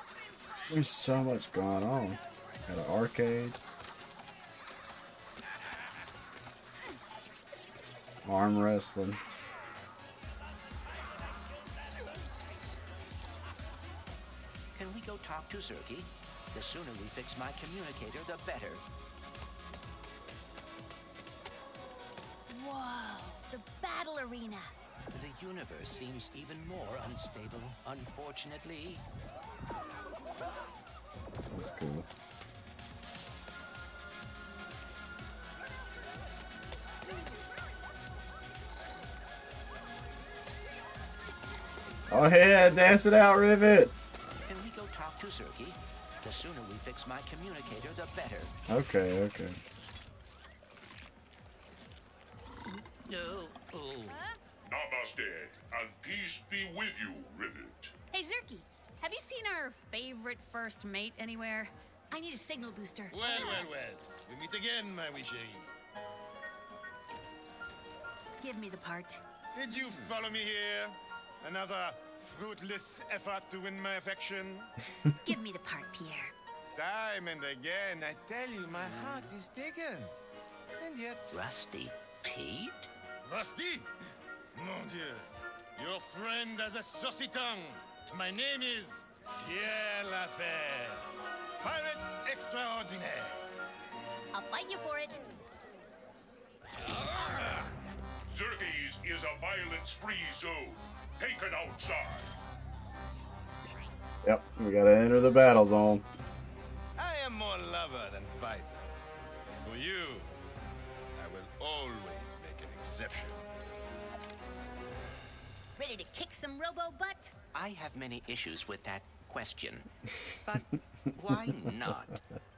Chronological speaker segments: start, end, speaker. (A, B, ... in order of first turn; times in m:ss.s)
0:00.7-0:03.6 A
0:08.2-0:09.2 A
0:14.7-0:18.8 B
0:22.5-0:24.8 C
0:25.1-0:29.0 B
0:31.5-0:32.1 A
0:42.1-0:43.9 A
0:44.4-0:48.5 B
0:48.7-0:49.6 A
0:52.7-0:54.2 B
0:54.1-0:54.4 C
0:54.6-0:57.9 D
0:58.1-1:03.7 C
1:03.1-1:05.7 E
1:08.4-1:09.2 C
1:09.5-1:14.7 E
1:15.2-1:16.3 C
1:16.7-1:20.1 E
1:20.8-1:21.4 E
1:21.3-1:22.9 B
1:23.2-1:23.9 E
1:24.5-1:31.0 E
1:31.6-1:33.4 E
1:34.3-1:35.2 C
1:36.8-1:37.7 E
1:38.3-1:42.3 D
1:44.2-1:46.0 A
1:47.0-1:48.9 E
1:49.6-1:50.3 E
1:51.2-1:53.4 E
1:55.8-1:57.3 C
1:57.5-1:59.9 B
2:00.4-2:02.2 B